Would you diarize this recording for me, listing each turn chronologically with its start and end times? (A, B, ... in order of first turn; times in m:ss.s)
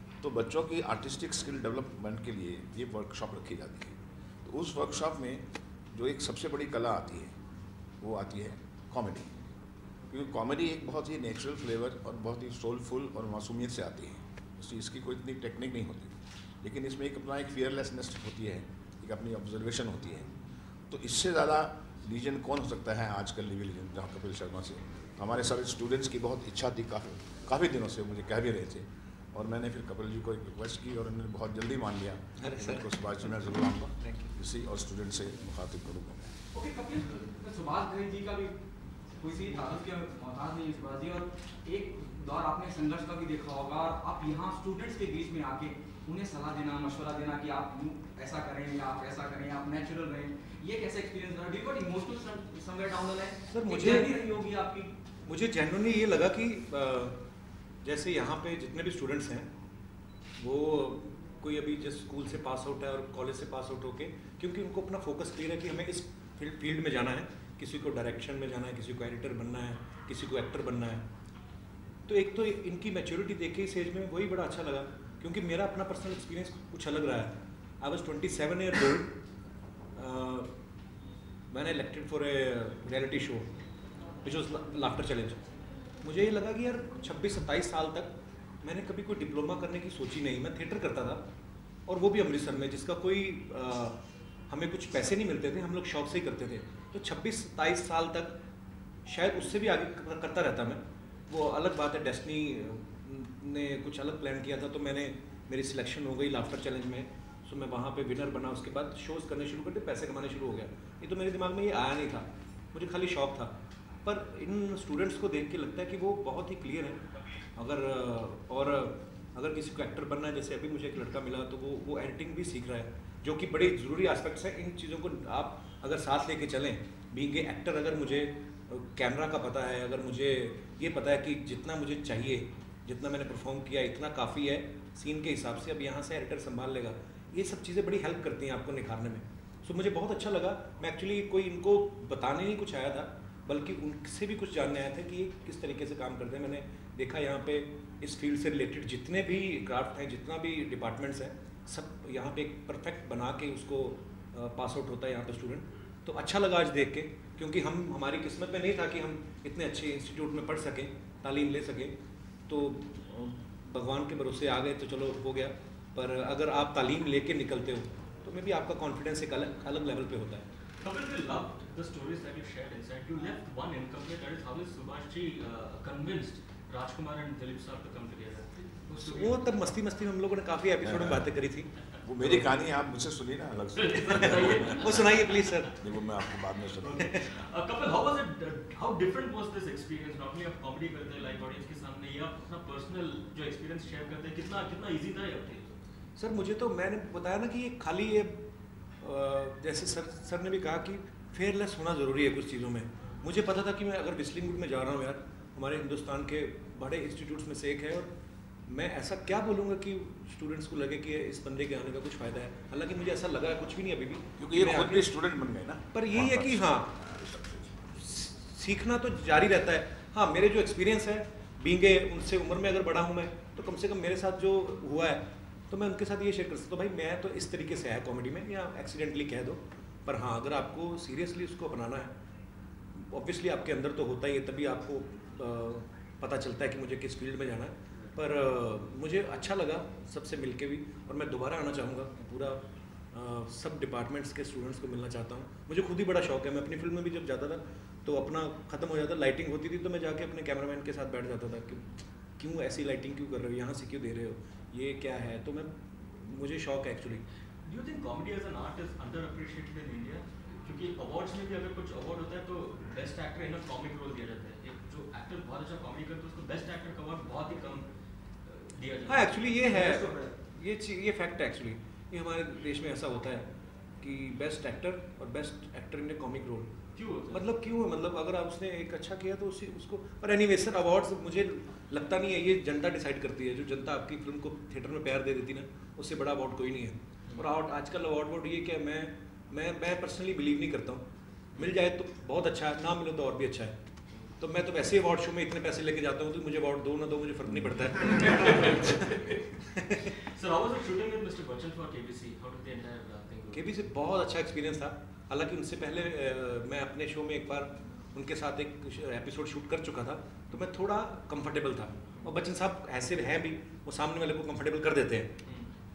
0:00.2-0:07.3 A
0:08.0-0:09.3 A
0:10.1-0:20.3 A
0:20.9-0:36.3 A
0:32.4-0:33.0 B
0:34.0-0:34.3 B
0:36.5-0:38.5 C
0:39.2-0:54.9 C
0:53.5-0:54.1 B
0:55.2-0:57.2 B
0:57.8-0:59.5 B
1:00.4-1:11.0 B
1:12.1-1:19.1 B
1:19.9-1:20.5 B
1:21.5-1:23.5 B
1:24.2-1:25.4 B
1:26.0-1:31.2 B
1:31.9-1:34.0 B
1:34.5-1:38.4 B
1:39.0-1:53.5 B
1:54.0-1:57.0 B
1:57.6-2:41.9 B
2:42.5-2:50.4 B
2:50.8-2:59.5 D
2:58.9-3:01.7 B
3:00.8-3:01.3 A
3:02.0-3:05.1 A
3:03.7-3:05.2 D
3:04.6-3:06.4 B
3:05.8-3:07.1 A
3:06.8-3:15.8 D
3:06.9-3:07.2 B
3:16.2-3:18.4 B
3:19.0-3:28.1 B
3:28.7-3:35.1 B
3:34.4-3:37.6 A
3:35.9-3:37.0 B
3:37.9-3:52.1 B
3:52.9-4:02.6 B
4:03.1-4:17.2 B
4:17.6-4:27.8 D
4:28.4-4:29.4 D
4:29.1-4:33.5 B
4:29.6-4:30.3 C
4:34.0-4:36.7 B
4:36.9-4:37.4 D
4:37.3-4:51.0 B
4:51.6-4:53.8 B
4:54.4-4:59.0 B
4:58.0-5:03.7 D
4:59.7-5:00.0 B
5:03.5-5:15.3 B